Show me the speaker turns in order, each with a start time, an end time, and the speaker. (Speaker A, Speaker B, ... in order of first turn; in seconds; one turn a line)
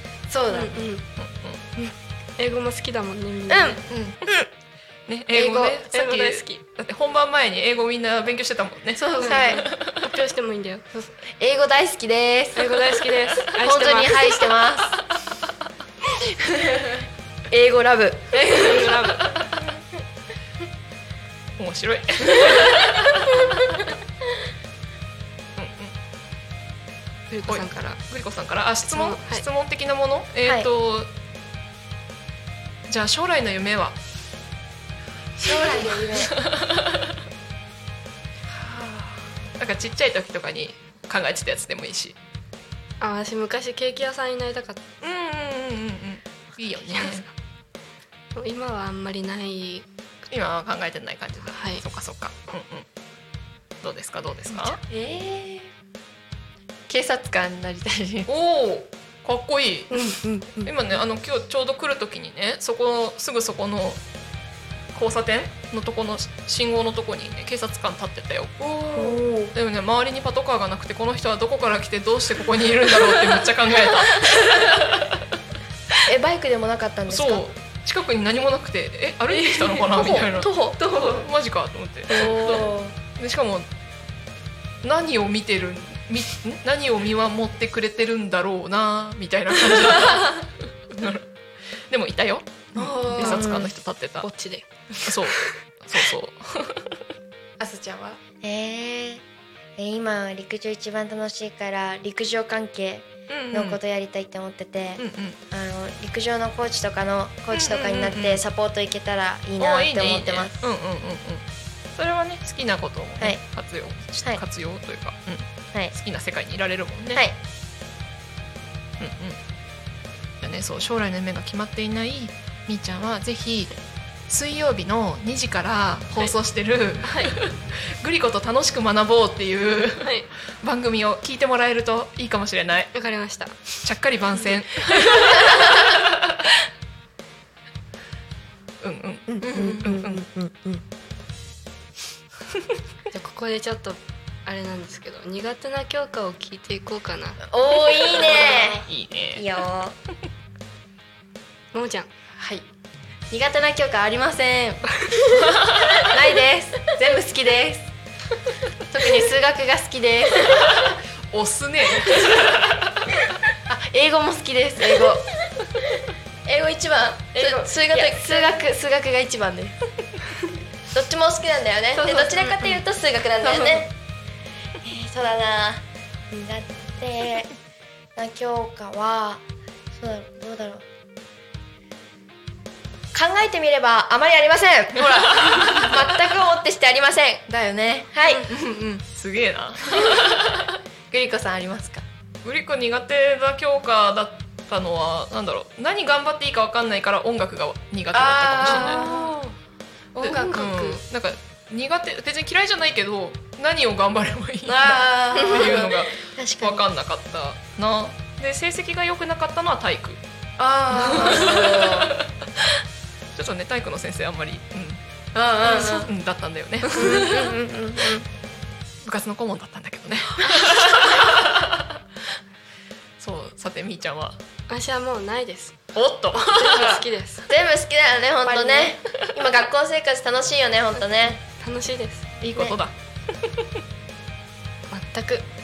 Speaker A: 0.3-0.8
Speaker B: 0.5-1.0
Speaker C: 1.2-1.6
Speaker B: 1.8-3.8
Speaker A: 3.5-4.2
Speaker C: 5.1-9.9
Speaker A: 5.3-5.8
Speaker B: 5.9-6.6
Speaker A: 8.9-9.6
Speaker B: 9.2-10.8
Speaker A: 10.9-12.8
Speaker B: 12.5-14.3
Speaker A: 13.6-15.0
Speaker A: 16.4-17.0
Speaker D: 17.5-18.4
Speaker A: 18.3-18.9
Speaker B: 18.5-19.4
Speaker C: 21.6-23.8
Speaker C: 25.6-25.9
Speaker B: 27.3-28.0
Speaker C: 27.5-31.1
Speaker B: 28.9-29.4
Speaker C: 32.9-34.0
Speaker A: 35.4-36.3
Speaker C: 36.2-37.1
Speaker B: 38.6-39.1
Speaker C: 39.6-42.1
Speaker B: 43.0-44.8
Speaker C: 45.0-47.3
Speaker B: 46.9-47.2
Speaker B: 48.3-49.9
Speaker C: 50.3-52.9
Speaker B: 51.5-51.8
Speaker C: 53.8-54.8
Speaker A: 54.9-55.7
Speaker A: 56.9-58.3
Speaker C: 58.3-64.0
Speaker A: 59.9-60.7
Speaker C: 64.9-68.6
Speaker A: 68.6-69.2
Speaker D: 69.0-69.5
Speaker C: 69.5-75.2
Speaker D: 76.0-77.4
Speaker C: 77.1-83.7
Speaker A: 79.3-80.2
Speaker D: 79.9-80.8
Speaker A: 80.8-81.2
Speaker D: 82.1-82.9
Speaker A: 82.1-82.7
Speaker C: 84.8-91.2
Speaker C: 91.9-94.3
Speaker A: 92.7-93.5
Speaker D: 93.2-93.7
Speaker B: 94.2-95.5
Speaker C: 95.0-96.9
Speaker A: 97.6-98.2
Speaker D: 98.4-99.2
Speaker D: 99.8-110.6
Speaker C: 103.3-103.8
Speaker C: 105.0-105.4
Speaker C: 107.5-108.4
Speaker C: 109.6-117.2
Speaker C: 119.0-119.4
Speaker C: 120.4-123.7
Speaker C: 124.3-132.9
Speaker B: 127.0-127.3
Speaker B: 130.0-130.3
Speaker B: 132.9-133.6
Speaker C: 133.8-136.5
Speaker C: 138.8-140.2
Speaker D: 139.3-140.8
Speaker B: 143.1-147.4
Speaker D: 147.5-149.9
Speaker A: 148.1-148.8
Speaker C: 148.8-149.5
Speaker B: 151.7-152.1
Speaker A: 152.4-152.6
Speaker A: 153.3-154.9
Speaker A: 155.9-157.9
Speaker A: 158.9-160.9
Speaker C: 161.3-162.9
Speaker A: 162.1-162.4
Speaker A: 163.7-165.3
Speaker D: 166.5-168.6
Speaker A: 166.6-169.8
Speaker D: 170.9-173.9
Speaker B: 171.9-172.8
Speaker A: 172.0-172.3
Speaker A: 173.4-173.8
Speaker D: 174.8-177.5
Speaker D: 178.2-180.8
Speaker D: 183.1-187.5
Speaker A: 185.0-186.1
Speaker A: 187.5-189.0
Speaker D: 188.1-188.5
Speaker C: 189.1-190.7
Speaker A: 191.1-192.0
Speaker C: 192.4-199.1
Speaker A: 198.1-199.3
Speaker B: 198.7-199.5
Speaker C: 200.1-210.2
Speaker A: 200.2-200.7
Speaker B: 200.2-201.0
Speaker A: 204.7-206.0
Speaker D: 205.3-206.9
Speaker A: 210.6-212.1
Speaker C: 210.9-212.7
Speaker D: 211.1-211.8
Speaker C: 213.3-215.0
Speaker A: 215.3-216.1
Speaker C: 215.6-217.5
Speaker A: 216.9-217.5
Speaker D: 217.0-218.2
Speaker C: 219.0-221.9
Speaker A: 220.5-221.0
Speaker C: 223.2-224.4
Speaker B: 224.7-227.4
Speaker C: 225.9-227.0
Speaker D: 227.5-231.4
Speaker A: 228.4-229.0
Speaker B: 231.4-232.3
Speaker C: 232.4-233.7
Speaker D: 232.4-232.8
Speaker B: 234.9-235.4